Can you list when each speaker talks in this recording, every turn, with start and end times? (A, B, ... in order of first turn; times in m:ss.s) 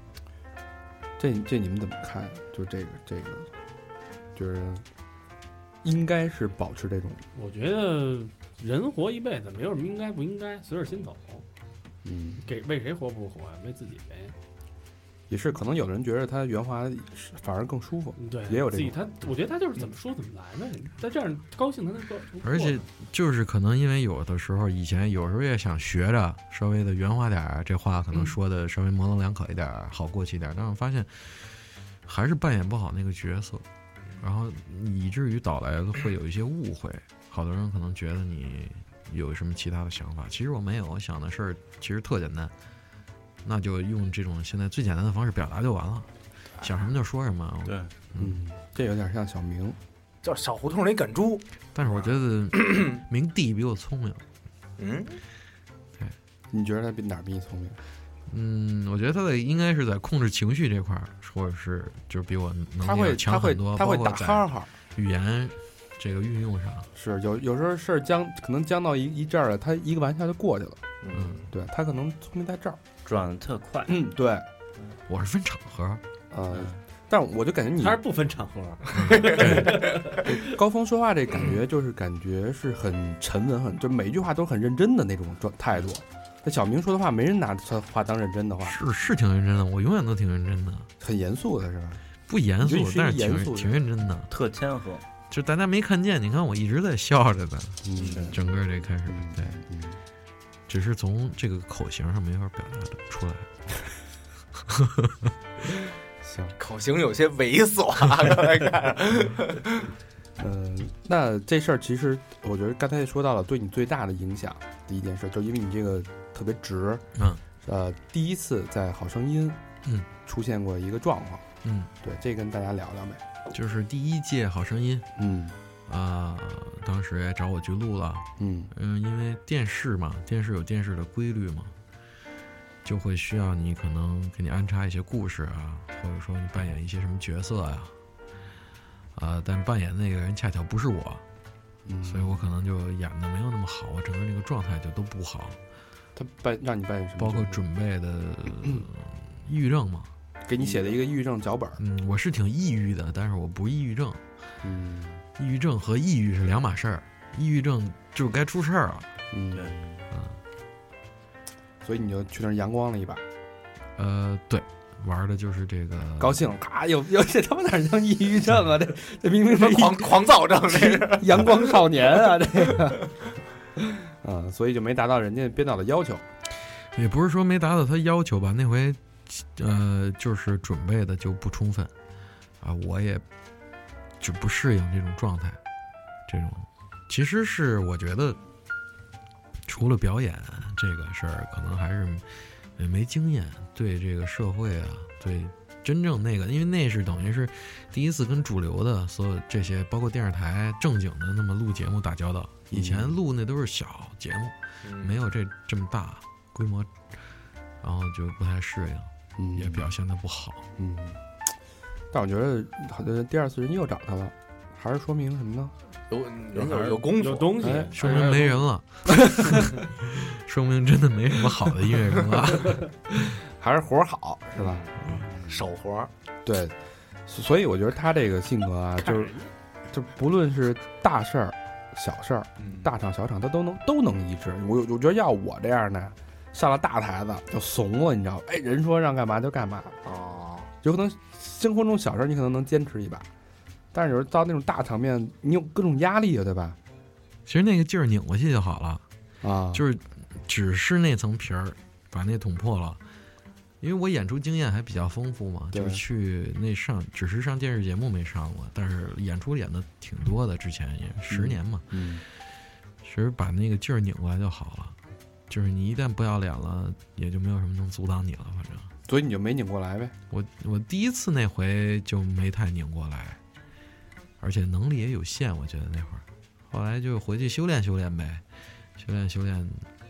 0:01.2-0:03.5 A
0:04.4-0:04.8 A
0:05.8-0:07.2 A
0:07.4-0:11.4 B
0:12.0-0:12.4 A
0:12.4-0:14.4 B
0:15.3-0:19.1 A
0:18.2-0:22.8 B
0:22.4-0:33.6 C
0:34.2-0:42.5 C
0:43.4-0:46.1 C
0:46.6-0:48.4 C
0:47.6-0:47.9 D
0:48.2-0:49.8 A
0:50.2-0:52.1 E
0:51.8-0:54.2 C
0:52.6-0:52.9 E
0:54.8-0:55.2 E
0:56.5-0:57.8 A
0:58.3-1:06.9 C
1:02.8-1:04.7 A
1:06.9-1:10.8 A
1:11.0-1:11.5 E
1:11.5-1:12.8 A
1:13.0-1:14.0 D
1:13.9-1:14.4 A
1:15.1-1:16.0 C
1:16.3-1:18.0 A
1:16.5-1:16.8 D
1:17.8-1:20.3 B
1:18.9-1:20.1 E
1:18.9-1:19.8 C
1:20.2-1:28.8 A
1:28.6-1:30.9 C
1:31.0-1:32.0 A
1:32.3-1:34.3 C
1:32.6-1:33.8 A
1:34.3-1:35.0 D
1:35.3-1:39.6 C
1:37.8-1:38.5 A
1:38.0-1:38.3 E
1:38.0-1:38.3 D
1:39.0-1:40.0 A
1:40.7-1:43.5 C
1:44.7-1:45.1 C
1:46.2-1:46.6 A
1:46.6-1:49.9 E
1:50.4-1:57.0 A
1:57.2-1:57.4 C
1:57.6-1:59.6 A
2:00.2-2:01.4 A
2:01.6-2:01.9 C
2:02.0-2:03.2 A
2:03.5-2:05.1 C
2:05.2-2:05.6 A
2:05.9-2:11.7 C
2:08.4-2:08.7 A
2:12.8-2:17.9 C
2:19.1-2:21.2 C
2:21.9-2:22.5 A
2:22.0-2:25.6 C
2:26.1-2:27.6 A
2:27.2-2:30.1 C
2:30.4-2:31.8 A
2:31.8-2:34.2 C
2:34.6-2:35.2 A
2:35.4-2:39.1 C
2:39.3-2:39.8 A
2:39.5-2:40.0 D
2:40.1-2:40.4 C
2:41.8-2:43.2 A
2:44.0-2:46.4 C
2:46.2-2:53.1 A
2:49.5-2:51.6 E
2:53.8-2:56.3 A
2:56.9-3:01.9 C
3:02.6-3:03.2 C
3:04.2-3:05.6 C
3:06.3-3:08.4 C
3:09.6-3:12.2 C
3:12.8-3:27.1 C
3:22.7-3:23.2 A
3:24.8-3:25.2 E
3:27.8-3:30.6 C
3:29.4-3:29.9 A
3:30.8-3:31.2 A
3:32.1-3:35.7 A
3:36.1-3:37.9 E
3:37.2-3:38.6 B
3:37.6-3:37.9 A
3:37.9-3:43.2 C
3:43.2-3:44.9 A
3:44.6-3:46.1 E
3:46.4-3:49.4 A
3:49.9-4:00.0 A
3:52.6-3:52.9 E
4:00.0-4:00.7 E
4:00.8-4:03.3 A
4:03.9-4:06.8 A
4:07.4-4:09.0 C
4:09.4-4:09.8 A
4:09.7-4:13.0 C
4:13.8-4:21.9 C
4:15.7-4:16.0 A
4:21.3-4:22.2 A
4:23.0-4:25.0 C
4:25.5-4:28.9 C
4:29.1-4:30.1 A
4:30.3-4:33.4 C
4:34.4-4:38.4 C
4:39.0-4:39.9 C